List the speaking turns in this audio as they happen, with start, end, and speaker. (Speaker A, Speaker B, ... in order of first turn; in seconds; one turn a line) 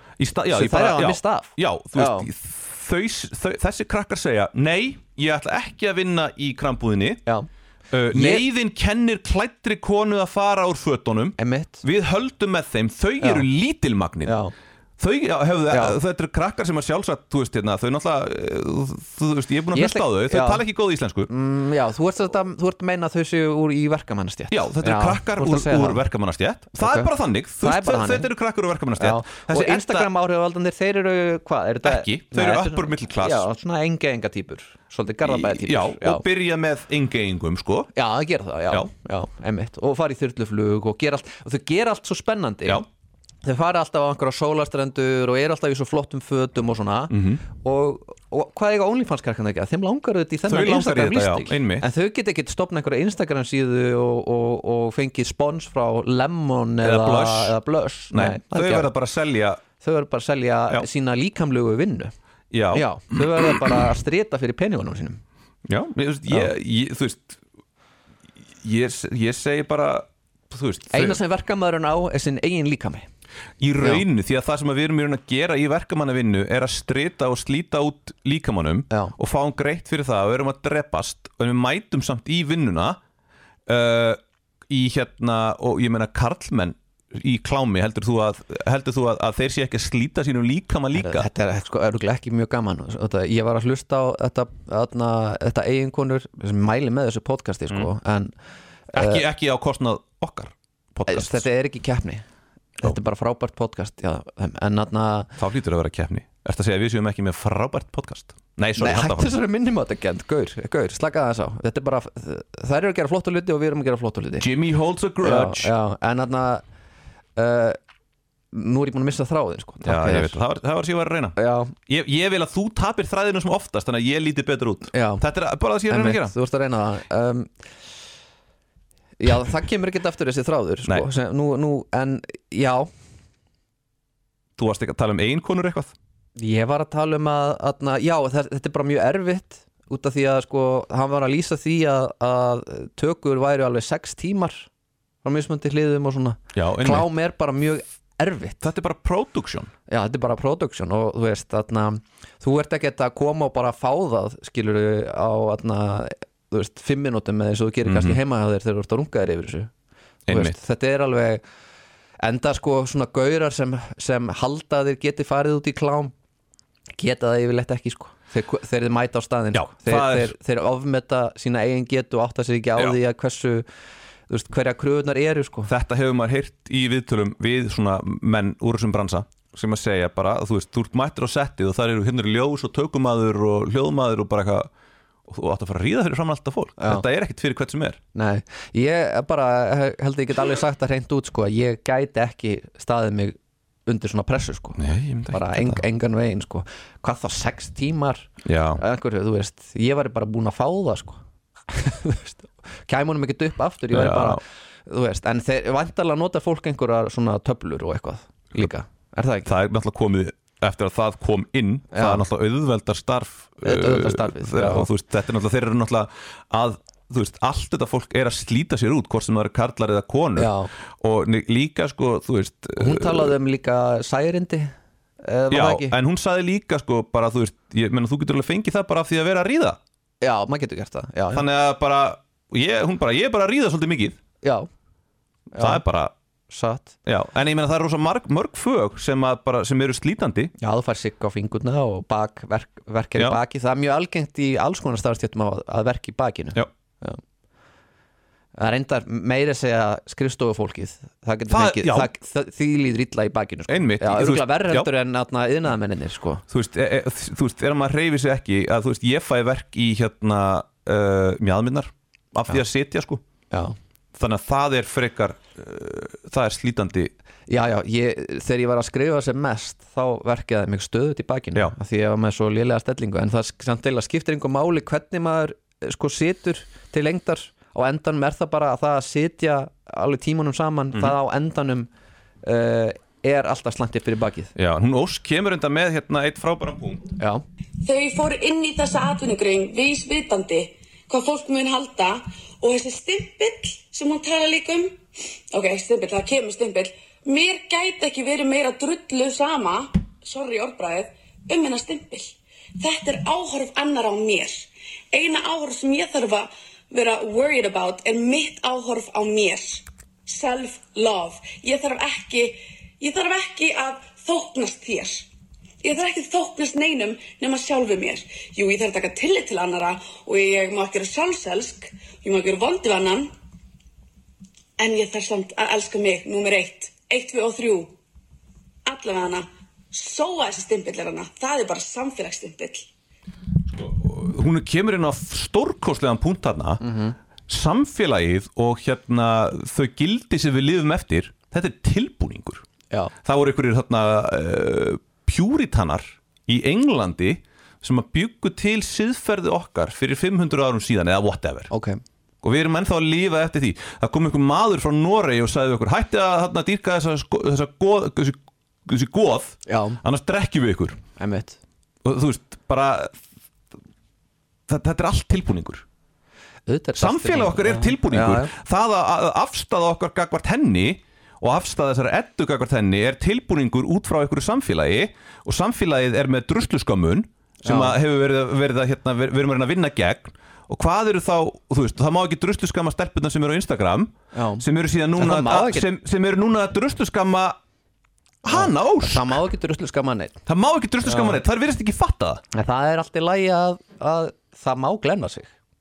Speaker A: 0.2-7.2
Speaker B: 0.5-2.3
Speaker A: 7.9-14.4
Speaker B: 8.1-8.4
Speaker B: 11.4-11.8
Speaker B: 13.2-13.4
Speaker B: 14.2-14.5
Speaker A: 15.0-21.3
Speaker B: 15.7-16.0
Speaker B: 19.7-20.6
Speaker B: 21.3-26.0
Speaker A: 24.5-30.1
Speaker B: 26.7-28.3
Speaker B: 29.0-36.2
Speaker A: 31.8-33.5
Speaker A: 35.2-37.9
Speaker B: 37.9-42.8
Speaker B: 43.4-58.9
Speaker A: 47.1-47.4
Speaker A: 50.5-51.9
Speaker A: 56.8-57.5
Speaker A: 58.1-59.6
Speaker B: 59.8-62.1
Speaker A: 62.5-63.6
Speaker B: 62.7-65.2
Speaker A: 65.7-67.4
Speaker A: 68.6-71.2
Speaker B: 70.9-73.1
Speaker A: 73.6-83.0
Speaker A: 83.7-91.3
Speaker B: 90.9-98.3
Speaker B: 98.9-99.2
Speaker A: 98.9-101.5
Speaker B: 101.1-102.2
Speaker B: 102.8-105.3
Speaker A: 105.4-109.3
Speaker B: 108.8-114.5
Speaker A: 114.4-115.7
Speaker B: 115.2-116.6
Speaker B: 117.3-117.8
Speaker B: 118.5-120.4
Speaker A: 119.8-126.3
Speaker B: 121.3-121.7
Speaker B: 124.9-125.2
Speaker B: 125.9-127.5
Speaker B: 129.2-132.9
Speaker A: 134.6-135.9
Speaker B: 136.4-144.7
Speaker B: 145.2-148.7
Speaker A: 146.5-147.1
Speaker A: 148.6-149.7
Speaker B: 149.9-159.7
Speaker A: 157.8-158.2
Speaker A: 160.3-160.6
Speaker B: 160.3-161.4
Speaker B: 162.2-166.1
Speaker B: 167.0-173.7
Speaker A: 169.5-170.3
Speaker B: 174.3-175.7
Speaker A: 175.7-184.7
Speaker A: 185.3-188.0
Speaker B: 186.8-187.0
Speaker B: 188.1-209.5
Speaker A: 194.8-195.8
Speaker A: 198.4-198.8
Speaker A: 203.9-204.4
Speaker A: 209.4-223.3
Speaker B: 211.9-212.2
Speaker B: 213.6-214.9
Speaker B: 220.3-220.7
Speaker B: 222.8-226.0
Speaker A: 225.5-229.8
Speaker B: 230.2-231.4
Speaker A: 231.3-234.2
Speaker B: 234.4-234.7
Speaker B: 235.5-235.8
Speaker A: 235.6-236.1
Speaker B: 236.5-236.9
Speaker A: 237.0-240.5
Speaker B: 240.6-247.2
Speaker B: 248.6-256.4
Speaker A: 251.5-252.1
Speaker A: 253.7-254.9
Speaker A: 256.5-263.2
Speaker A: 264.1-267.1
Speaker B: 267.5-281.9
Speaker B: 282.4-284.5
Speaker A: 284.6-287.1
Speaker B: 287.2-287.4
Speaker C: 287.8-295.0
Speaker C: 295.5-315.3
Speaker C: 315.8-323.3
Speaker C: 324.8-327.9
Speaker C: 328.9-332.9
Speaker A: 333.7-336.8
Speaker B: 336.8-337.1
Speaker A: 337.5-342.6
Speaker A: 343.2-351.7
Speaker B: 351.7-352.0
Speaker A: 352.4-361.0
Speaker B: 359.6-360.0
Speaker B: 361.2-361.6
Speaker A: 362.0-363.1
Speaker A: 364.7-365.8
Speaker B: 366.6-368.5
Speaker A: 367.0-387.6
Speaker B: 377.6-377.9
Speaker B: 384.3-384.6
Speaker B: 385.2-385.9
Speaker A: 388.4-389.4
Speaker B: 388.5-390.4
Speaker A: 390.4-392.4
Speaker B: 391.0-391.4
Speaker B: 392.5-395.5